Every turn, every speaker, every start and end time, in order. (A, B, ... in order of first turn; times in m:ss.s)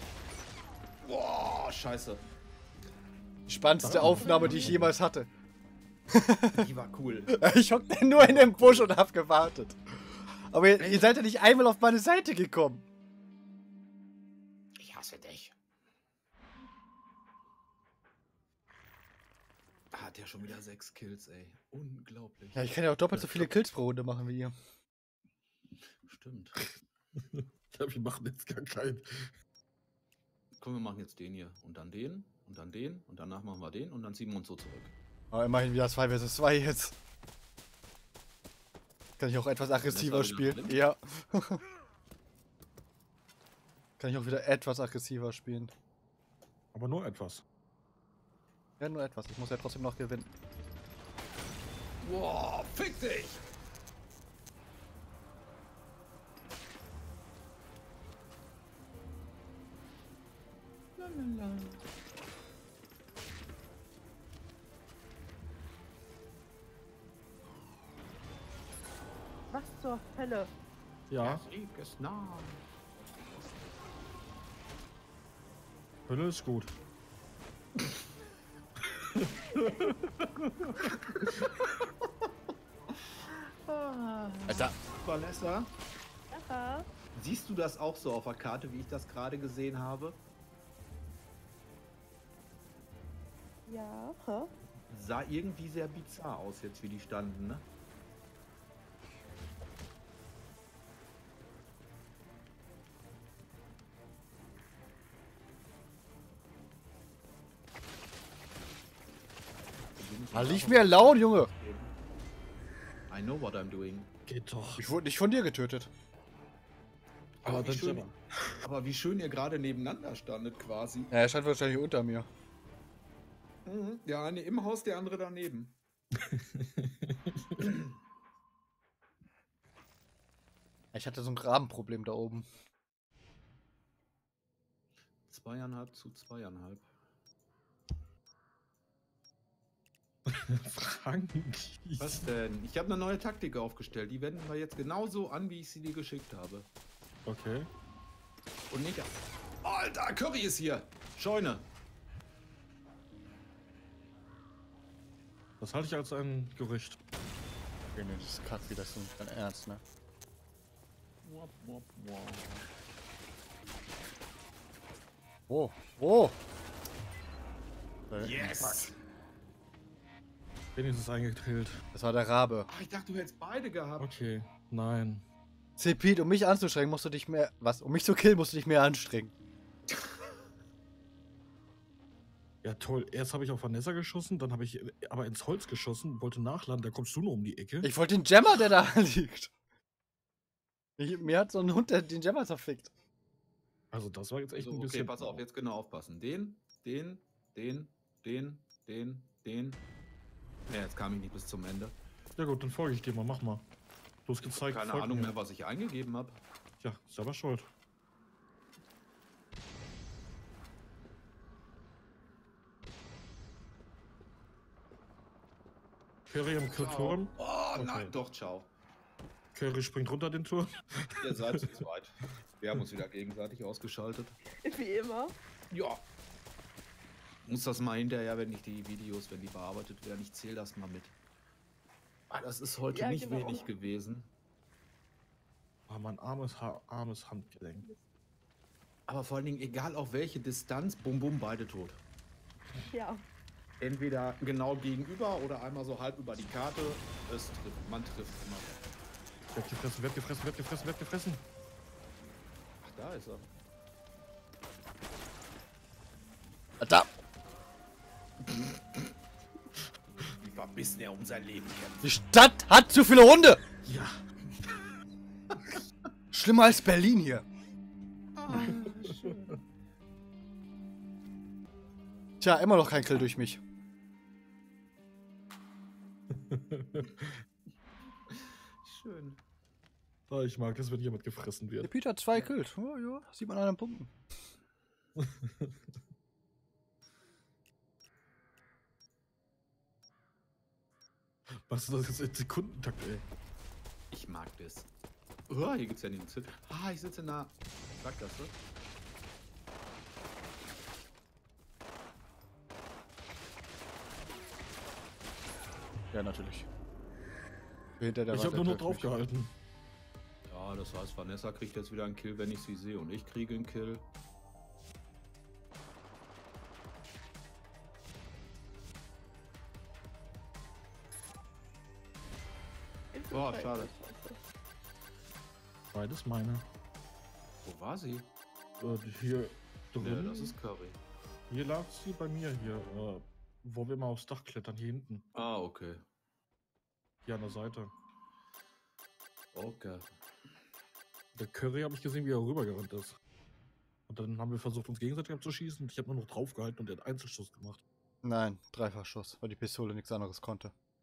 0:01.0-0:02.2 A
0:03.5-0:05.3 B
0:03.8-0:04.9 C
0:04.0-0:04.8 D
0:06.1-0:06.7 B
0:06.6-0:07.4 A
0:07.3-0:12.8 B
0:08.2-0:08.8 A
0:10.8-0:11.2 A
0:14.8-0:15.6 A
0:19.9-0:22.7 A
0:22.6-0:24.5 B
0:23.2-0:23.5 C
0:26.0-0:26.6 A
0:27.3-0:29.3 C
0:30.6-0:34.9 A
0:35.3-0:37.0 B
0:39.2-0:41.6 B
0:39.8-0:40.8 A
0:44.0-0:45.7 B
0:46.7-0:47.4 C
0:48.8-0:50.3 B
0:52.0-0:53.4 A
1:01.0-1:01.8 A
1:09.5-1:10.5 D
1:11.1-1:11.4 C
1:11.2-1:12.6 A
1:16.1-1:16.8 C
1:19.0-1:20.9 C
1:20.4-1:22.1 A
1:23.2-1:25.7 A
1:26.3-1:26.9 D
1:27.1-1:30.2 A
1:33.7-1:34.5 D
1:34.9-1:37.7 A
1:50.0-1:51.9 A
1:50.3-1:51.5 B
1:53.1-1:54.1 A
1:54.3-1:54.8 C
1:54.8-1:55.9 B
1:57.4-1:58.1 A
1:57.4-1:58.5 C
1:58.6-2:01.1 A
2:01.1-2:02.3 B
2:03.7-2:05.8 A
2:06.2-2:07.8 C
2:10.9-2:12.5 B
2:15.3-2:16.9 A
2:20.3-2:22.3 C
2:22.0-2:26.7 A
2:27.2-2:27.7 C
2:28.7-2:29.1 A
2:29.6-2:31.7 A
2:35.6-2:37.0 C
2:37.9-2:39.8 B
2:41.2-2:42.7 A
2:45.5-2:46.4 B
2:48.1-2:48.9 B
2:48.2-2:49.0 A
2:50.8-2:51.8 C
2:51.9-2:52.7 B
2:52.7-2:54.1 A
2:54.0-2:55.2 C
2:55.8-2:59.3 B
3:02.6-3:07.9 C
3:07.8-3:09.5 B
3:11.0-3:12.9 B
3:13.9-3:15.4 C
3:14.6-3:19.8 A
3:20.7-3:22.0 A
3:22.4-3:23.7 C
3:24.3-3:25.3 C
3:24.7-3:26.4 A
3:26.8-3:27.7 C
3:36.3-3:38.1 C
3:36.8-3:38.7 A
3:39.5-3:41.8 C
3:41.2-3:44.4 A
3:44.6-3:45.4 D
3:45.7-3:46.0 A
3:47.4-3:51.2 A
3:52.3-3:54.3 A
3:52.9-3:53.7 D
3:55.9-3:57.9 C
3:59.1-4:02.0 A
4:02.8-4:03.3 D
4:03.8-4:08.9 A
4:09.5-4:11.4 C
4:12.8-4:13.5 A
4:16.8-4:17.1 B
4:18.5-4:19.0 A
4:20.4-4:22.1 A
4:22.0-4:23.6 B
4:23.8-4:24.2 C
4:26.3-4:27.5 B
4:28.4-4:29.6 A
4:28.5-4:29.3 C
4:32.4-4:33.6 B
4:36.3-4:37.3 C
4:38.3-4:39.4 A
4:40.3-4:41.9 C
4:41.8-4:44.1 B
4:45.2-4:45.8 C
4:51.7-4:53.3 C
4:54.1-4:54.9 A
4:55.5-4:58.6 A
5:06.1-5:06.7 B
5:08.0-5:09.1 B
5:08.3-5:09.5 C
5:10.5-5:14.1 A
5:23.1-5:24.4 D
5:23.3-5:23.9 A
5:25.9-5:26.6 C
5:27.6-5:28.3 A
5:28.8-5:30.6 C
5:30.0-5:31.0 A
5:31.5-5:35.2 C
5:35.3-5:36.0 A
5:37.3-5:37.9 C
5:39.5-5:40.1 A
5:41.4-5:43.2 C
5:44.1-5:47.8 C
5:48.2-5:50.7 B